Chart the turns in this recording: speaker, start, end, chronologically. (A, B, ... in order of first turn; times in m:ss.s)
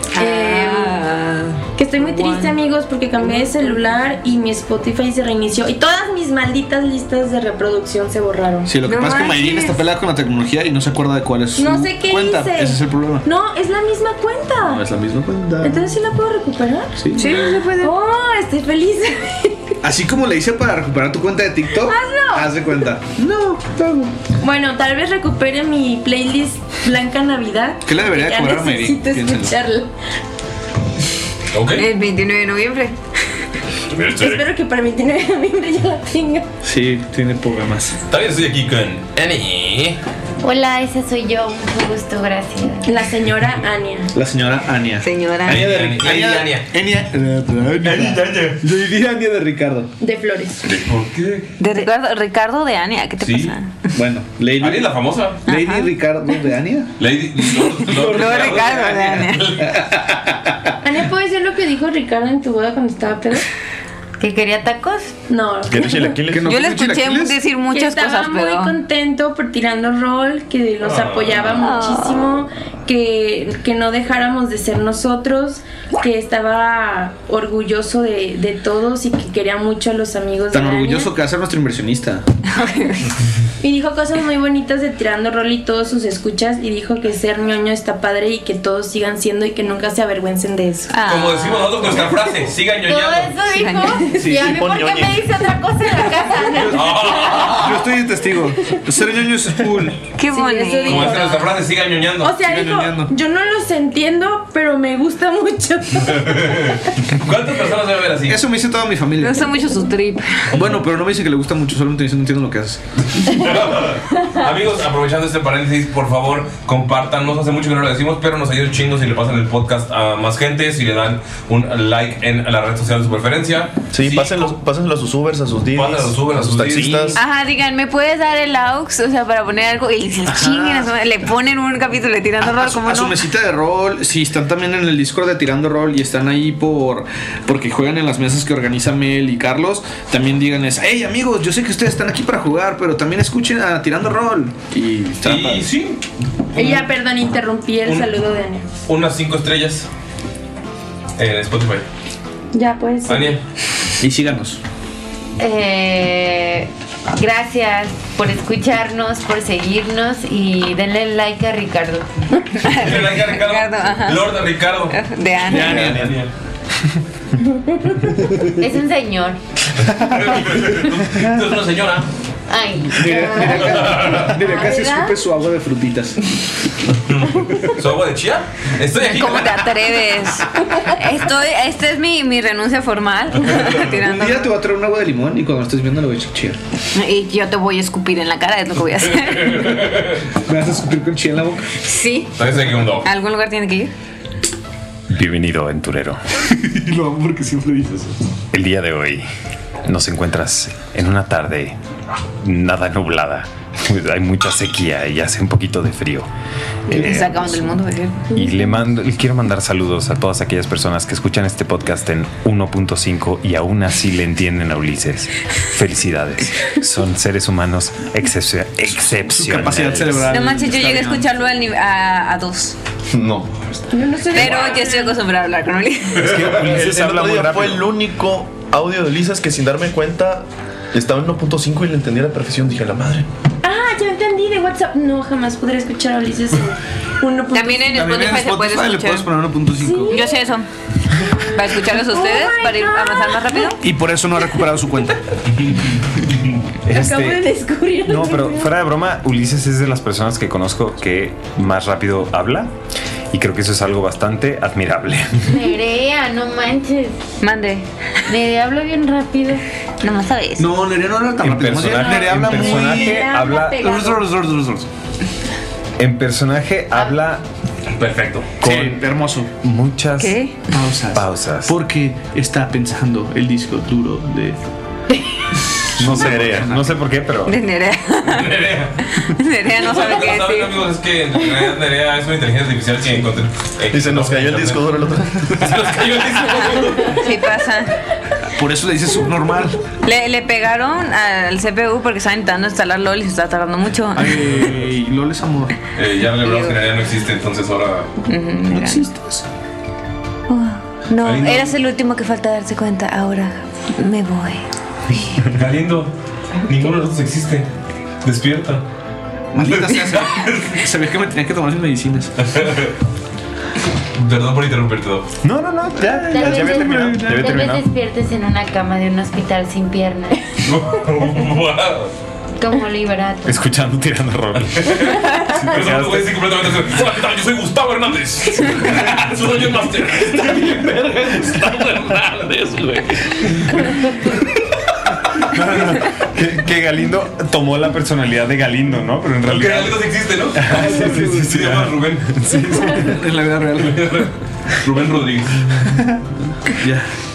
0:00.1-0:02.6 A
0:00.2-0:01.0 B
0:01.8-0:08.7 B
0:08.6-0:13.2 C
0:08.8-0:09.9 A
0:11.6-0:14.8 B
0:14.6-0:15.9 C
0:15.6-0:19.8 B
0:17.0-0:17.4 C
0:17.1-0:18.0 A
0:19.8-0:24.1 C
0:21.9-0:22.4 A
0:22.0-0:22.5 B
0:24.4-0:29.9 B
0:27.8-0:29.6 C
0:31.5-0:31.8 D
0:31.7-0:33.0 A
0:33.9-0:34.5 D
0:34.1-0:36.4 B
0:36.6-0:38.0 C
0:38.1-0:40.0 D
0:40.4-0:42.9 E
0:42.8-0:44.1 B
0:44.1-0:49.9 C
0:45.0-0:45.6 A
0:45.5-0:46.7 D
0:47.8-0:48.6 D
0:50.0-0:50.6 B
0:50.6-0:51.6 D
0:51.6-0:53.8 A
0:53.2-0:53.5 D
0:53.9-0:54.9 C
0:54.6-0:55.4 D
0:55.4-0:56.9 C
0:55.5-0:55.9 A
0:57.0-0:59.8 D
0:57.4-0:59.6 A
0:57.9-0:58.6 C
0:59.6-1:00.8 C
1:00.8-1:03.4 B
1:04.2-1:05.1 E
1:05.3-1:06.2 B
1:05.7-1:06.5 F
1:06.3-1:07.4 C
1:06.4-1:08.8 A
1:07.7-1:21.1 B
1:10.8-1:11.5 D
1:11.6-1:12.4 A
1:20.5-1:22.2 C
1:22.5-1:23.1 A
1:23.6-1:30.9 B
1:30.9-1:32.1 A
1:31.0-1:33.3 D
1:32.8-1:37.6 E
1:33.5-1:34.1 A
1:34.2-1:34.5 C
1:34.3-1:35.3 F
1:36.7-1:37.8 D
1:36.8-1:40.1 C
1:40.1-1:41.5 A
1:40.2-1:41.6 B
1:40.8-1:42.4 D
1:42.2-1:46.5 B
1:42.4-1:43.1 C
1:46.1-1:48.4 D
1:48.3-1:49.5 C
1:49.2-1:50.7 A
1:50.5-1:52.8 C
1:53.2-2:04.6 D
2:03.9-2:07.2 F
2:05.7-2:07.1 D
2:06.9-2:07.2 C
2:07.2-2:13.2 A
2:10.2-2:10.9 C
2:12.4-2:25.7 C
2:25.2-2:26.0 D
2:26.5-2:26.9 D
2:26.5-2:28.7 B
2:27.8-2:28.1 D
2:28.9-2:29.9 D
2:31.2-2:31.8 D
2:32.5-2:33.3 B
2:33.1-2:33.4 D
2:34.0-2:34.6 C
2:35.4-2:42.1 E
2:42.6-2:44.4 A
2:42.6-2:46.3 D
2:44.9-2:45.8 A
2:45.4-2:46.0 C
2:45.6-2:46.2 F
2:47.6-2:48.1 B
2:48.6-2:49.4 E
2:49.9-2:52.1 D
2:52.5-2:53.6 E
2:53.0-2:56.2 C
2:53.1-2:53.6 B
2:53.6-2:54.3 D
2:54.5-2:55.2 B
2:57.1-2:59.6 D
2:59.0-3:04.5 A
2:59.1-2:59.6 C
3:03.7-3:06.6 C
3:06.9-3:09.8 A
3:09.1-3:10.2 D
3:10.5-3:11.7 C
3:11.8-3:12.3 A
3:12.4-3:13.1 D
3:13.0-3:13.9 A
3:15.1-3:16.2 G
3:16.6-3:18.2 C
3:18.5-3:19.2 G
3:19.8-3:21.8 G
3:22.4-3:26.3 G
3:26.9-3:27.6 C
3:26.9-3:28.4 A
3:26.9-3:27.5 G
3:28.3-3:40.4 G
3:39.0-3:41.3 C
3:40.3-3:42.8 A
3:43.1-3:43.7 F
3:43.9-3:45.2 B
3:44.3-3:46.4 A
3:44.3-3:44.8 G
3:46.2-3:47.9 G
3:46.4-3:53.3 F
3:53.6-3:58.2 B
3:57.5-3:59.3 A
3:57.8-4:00.1 C
3:59.8-4:00.4 B
4:00.1-4:00.7 A
4:01.3-4:03.7 B
4:01.4-4:03.8 A
4:03.8-4:05.2 C
4:05.6-4:06.5 D
4:06.9-4:07.4 G
4:06.9-4:08.7 B
4:08.0-4:12.7 G
4:13.3-4:15.6 G
4:15.5-4:17.2 E
4:17.4-4:17.8 A
4:18.3-4:19.6 E
4:20.0-4:20.7 A
4:20.6-4:24.9 C
4:21.4-4:24.2 G
4:22.6-4:24.1 B
4:26.0-4:27.4 G
4:27.9-4:28.6 D
4:28.6-4:29.5 C
4:28.6-4:29.0 G
4:29.6-4:30.4 G
4:30.2-4:30.6 A
4:30.7-4:34.6 C
4:31.1-4:31.7 G
4:36.0-4:36.8 C
4:36.0-4:37.6 G
4:36.1-4:36.8 F
4:37.4-4:40.9 A
4:38.2-4:39.0 D
4:39.7-4:47.3 D
4:43.9-4:45.6 F
4:46.6-4:48.0 A
4:48.5-4:49.8 C
4:50.0-4:54.6 A
4:54.1-4:55.7 C
4:56.0-4:58.1 D
4:56.4-4:56.8 A
4:58.3-4:59.1 A
4:58.7-4:59.4 C
5:00.5-5:04.6 A
5:01.2-5:01.8 D
5:05.5-5:06.1 D
5:06.6-5:07.7 D
5:08.2-5:08.8 D
5:09.5-5:12.3 C
5:09.6-5:10.8 D
5:12.4-5:12.9 D
5:14.2-5:15.3 D
5:15.4-5:17.9 G
5:16.3-5:20.5 E
5:16.8-5:17.2 C
5:20.6-5:22.1 D
5:22.6-5:23.6 E
5:23.4-5:26.4 G
5:24.7-5:33.8 D
5:35.5-5:43.2 G
5:39.5-5:42.3 D
5:40.7-5:41.6 C
5:42.9-5:44.2 C
5:43.8-5:45.6 D
5:46.8-5:47.1 C